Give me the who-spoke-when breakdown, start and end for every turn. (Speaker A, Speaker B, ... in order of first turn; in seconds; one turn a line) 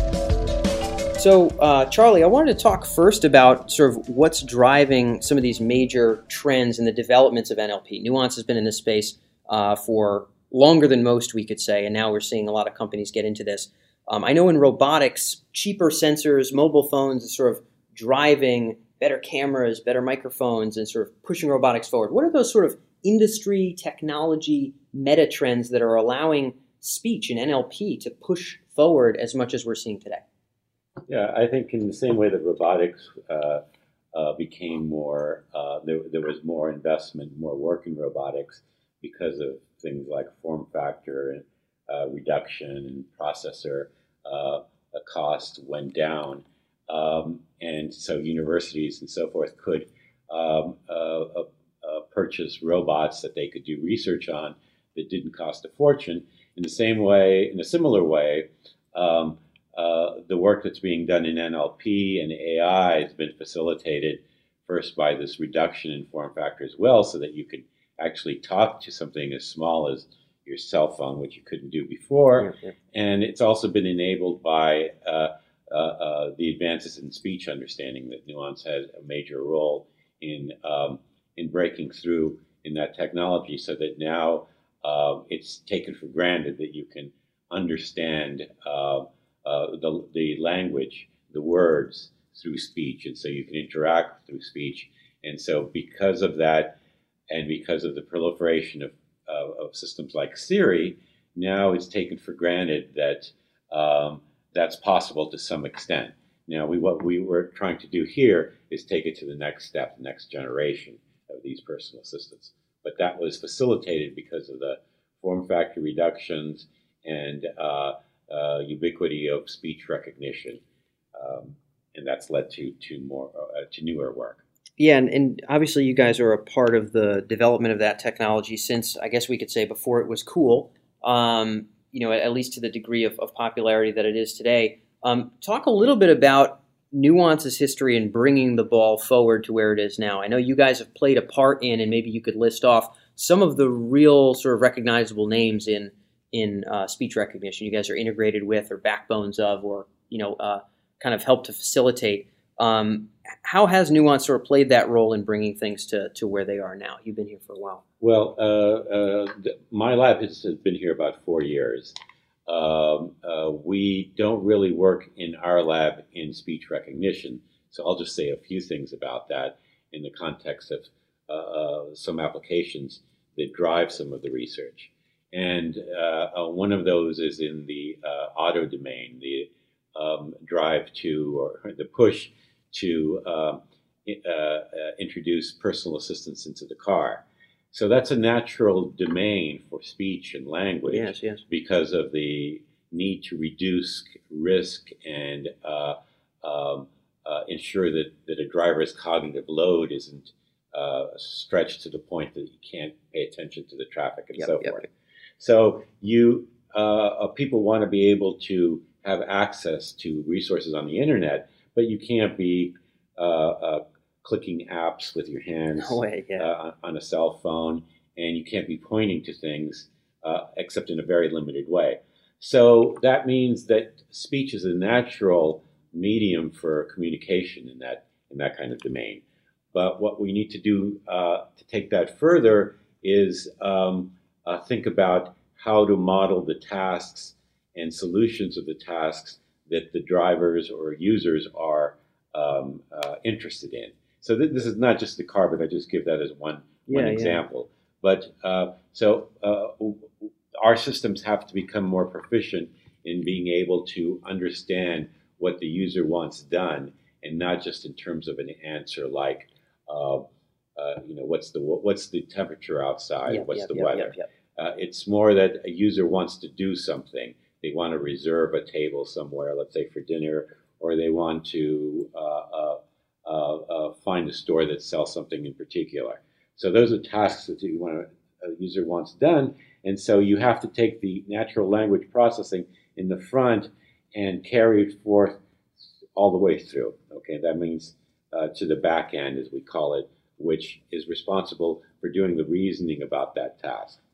Speaker A: 1.2-30.2
Speaker B: 31.1-33.6
Speaker B: 34.1-96.8
Speaker A: 72.4-72.7
Speaker B: 97.3-120.6
Speaker B: 121.2-124.4
Speaker A: 124.8-157.8
Speaker B: 158.0-161.9
Speaker B: 162.5-204.9
Speaker A: 190.9-191.4
Speaker A: 204.4-204.9
Speaker B: 205.4-260.2
Speaker A: 215.8-216.5
Speaker A: 246.9-247.4
Speaker B: 260.8-285.4
Speaker A: 263.3-264.3
Speaker B: 286.1-294.0